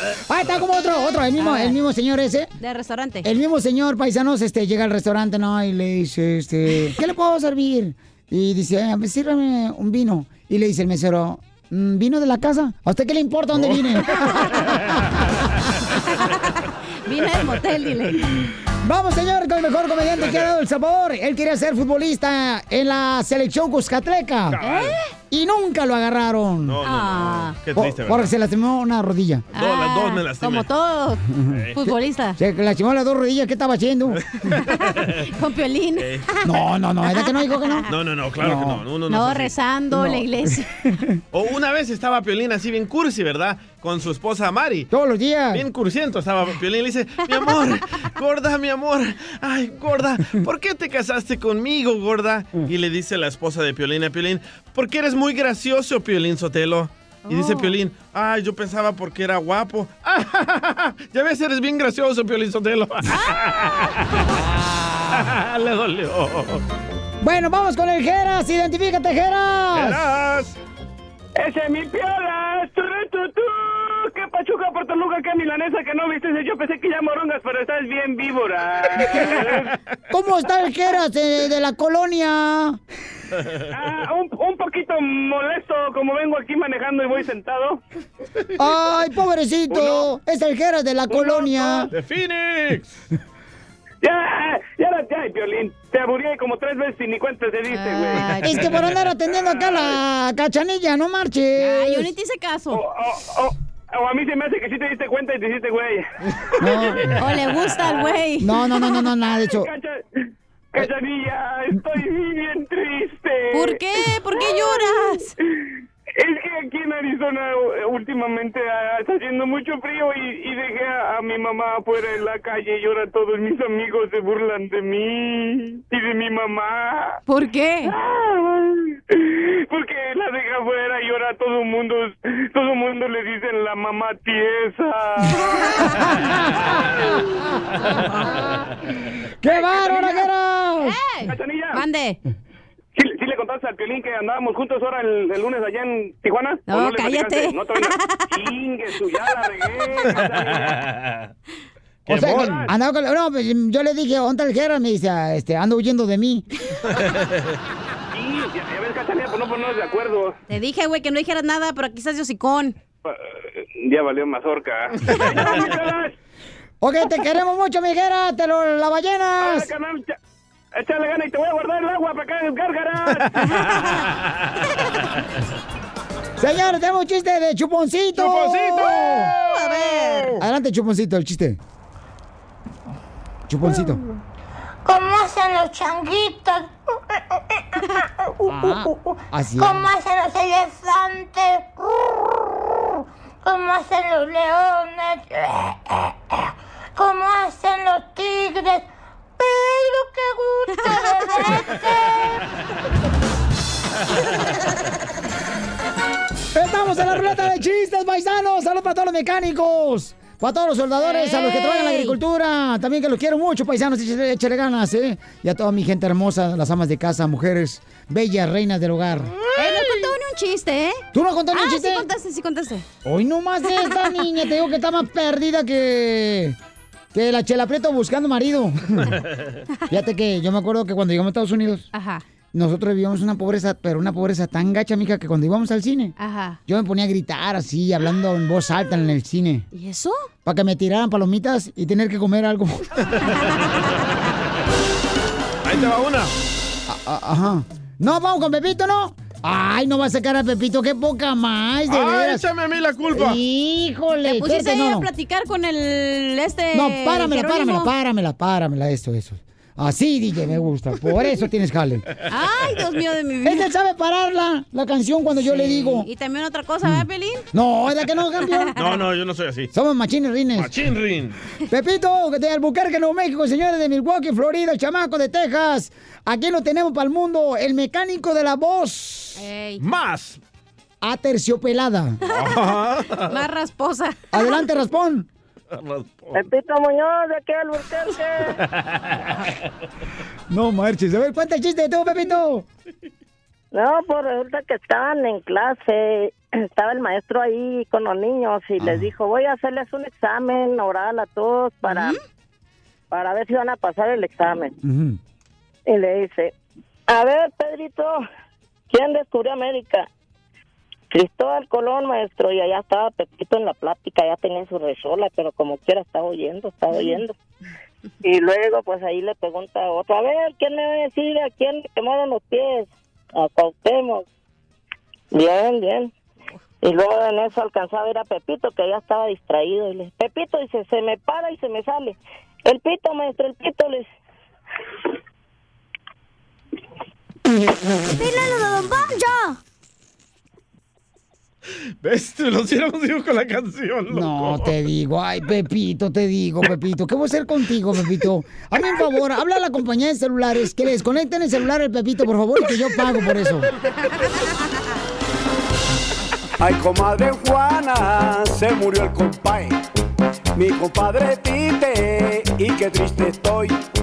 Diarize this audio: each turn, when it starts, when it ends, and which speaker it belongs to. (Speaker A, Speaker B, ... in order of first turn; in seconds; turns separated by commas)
Speaker A: 0.3-2.5, Speaker B: 0.9-1.8, Speaker B: 2.6-3.3, Speaker A: 3.2-15.0, Speaker C: 13.5-15.1, Speaker B: 16.1-16.5, Speaker B: 17.1-18.3, Speaker A: 18.8-24.6, Speaker C: 20.2-20.5, Speaker C: 24.5-25.0, Speaker B: 24.6-25.1, Speaker A: 25.3-26.8, Speaker C: 26.6-28.3, Speaker B: 26.8-27.6, Speaker A: 27.7-29.4, Speaker C: 29.5-30.7, Speaker B: 29.5-32.4, Speaker C: 31.5-31.9, Speaker A: 32.4-34.2, Speaker C: 34.1-35.2, Speaker B: 34.6-36.4, Speaker C: 36.0-36.3, Speaker A: 36.4-37.9, Speaker B: 37.0-37.9, Speaker C: 37.9-39.5, Speaker A: 38.4-38.8, Speaker B: 39.1-40.7, Speaker A: 39.9-41.2, Speaker C: 41.3-44.9, Speaker A: 44.9-45.6, Speaker C: 45.5-64.2, Speaker B: 47.3-47.6, Speaker B: 57.2-57.7, Speaker B: 63.1-64.0, Speaker A: 64.7-65.2, Speaker C: 65.1-66.6, Speaker A: 67.2-70.0, Speaker C: 69.7-70.5, Speaker D: 71.4-79.7, Speaker A: 80.1-82.8, Speaker D: 83.7-87.8, Speaker A: 88.5-91.9, Speaker D: 89.7-90.0, Speaker D: 91.1-91.8, Speaker C: 91.9-92.9, Speaker D: 94.0-98.3, Speaker B: 97.7-98.7, Speaker A: 98.4-102.1, Speaker B: 101.6-102.8, Speaker D: 102.7-106.1, Speaker A: 106.6-107.1, Speaker D: 106.6-107.0, Speaker B: 107.1-109.1, Speaker A: 108.4-109.7, Speaker D: 109.5-113.8, Speaker B: 113.5-115.3, Speaker D: 114.3-114.9, Speaker D: 116.2-127.2, Speaker B: 127.3-127.9, Speaker D: 127.8-135.6, Speaker B: 135.5-136.0, Speaker A: 135.9-136.7, Speaker B: 137.9-138.5, Speaker A: 139.4-141.0, Speaker D: 139.5-140.2, Speaker B: 140.8-142.2, Speaker D: 141.2-141.8, Speaker D: 142.9-150.8, Speaker B: 146.7-148.3, Speaker C: 150.2-151.3, Speaker C: 152.1-152.6, Speaker A: 152.1-156.4, Speaker D: 152.2-152.7, Speaker D: 158.1-160.3, Speaker B: 160.5-162.8, Speaker D: 163.1-166.1, Speaker A: 166.8-169.7, Speaker D: 169.4-170.2, Speaker D: 170.7-173.4, Speaker B: 173.6-174.0, Speaker A: 176.4-179.3, Speaker C: 178.2-180.4, Speaker B: 179.4-180.3, Speaker A: 180.4-181.6, Speaker A: 183.5-184.0, Speaker E: 183.7-184.0, Speaker E: 184.8-186.7, Speaker E: 187.8-202.4, Speaker A: 188.5-189.9, Speaker B: 200.7-201.5, Speaker A: 206.5-219.3, Speaker B: 211.0-212.2, Speaker C: 219.3-219.9, Speaker B: 219.6-222.8, Speaker A: 221.1-222.1, Speaker A: 223.0-226.6, Speaker B: 223.7-224.3, Speaker A: 227.1-229.1, Speaker A: 229.9-231.9, Speaker B: 231.9-232.2, Speaker A: 232.5-236.1, Speaker B: 236.2-236.6, Speaker A: 236.7-239.7, Speaker B: 239.7-240.1, Speaker A: 240.4-242.8, Speaker C: 245.6-246.3, Speaker A: 246.9-252.4, Speaker C: 251.9-253.4, Speaker A: 253.1-255.1, Speaker B: 254.2-257.9, Speaker A: 256.7-262.1, Speaker B: 262.3-263.7, Speaker A: 263.4-266.1, Speaker B: 265.4-267.4, Speaker A: 266.8-268.7, Speaker B: 268.4-269.0, Speaker C: 268.8-269.7, Speaker A: 269.7-270.7, Speaker C: 270.6-271.4, Speaker A: 271.7-279.4, Speaker B: 279.4-279.8, Speaker C: 279.8-280.4, Speaker A: 281.0-282.2, Speaker B: 282.2-284.6, Speaker C: 282.2-283.4, Speaker A: 284.3-285.3, Speaker C: 285.7-286.4, Speaker F: 286.3-288.5, Speaker A: 290.5-292.6, Speaker F: 293.7-302.1, Speaker A: 298.8-299.1, Speaker B: 301.8-302.2, Speaker F: 303.1-304.7, Speaker A: 304.8-305.2, Speaker F: 305.9-306.5, Speaker F: 307.1-308.2, Speaker F: 308.9-310.1, Speaker F: 311.1-317.4, Speaker F: 318.2-324.2, Speaker F: 325.3-326.1, Speaker F: 326.8-334.1, Speaker C: 342.0-344.7, Speaker A: 344.1-353.7, Speaker G: 356.6-359.8, Speaker G: 360.5-363.8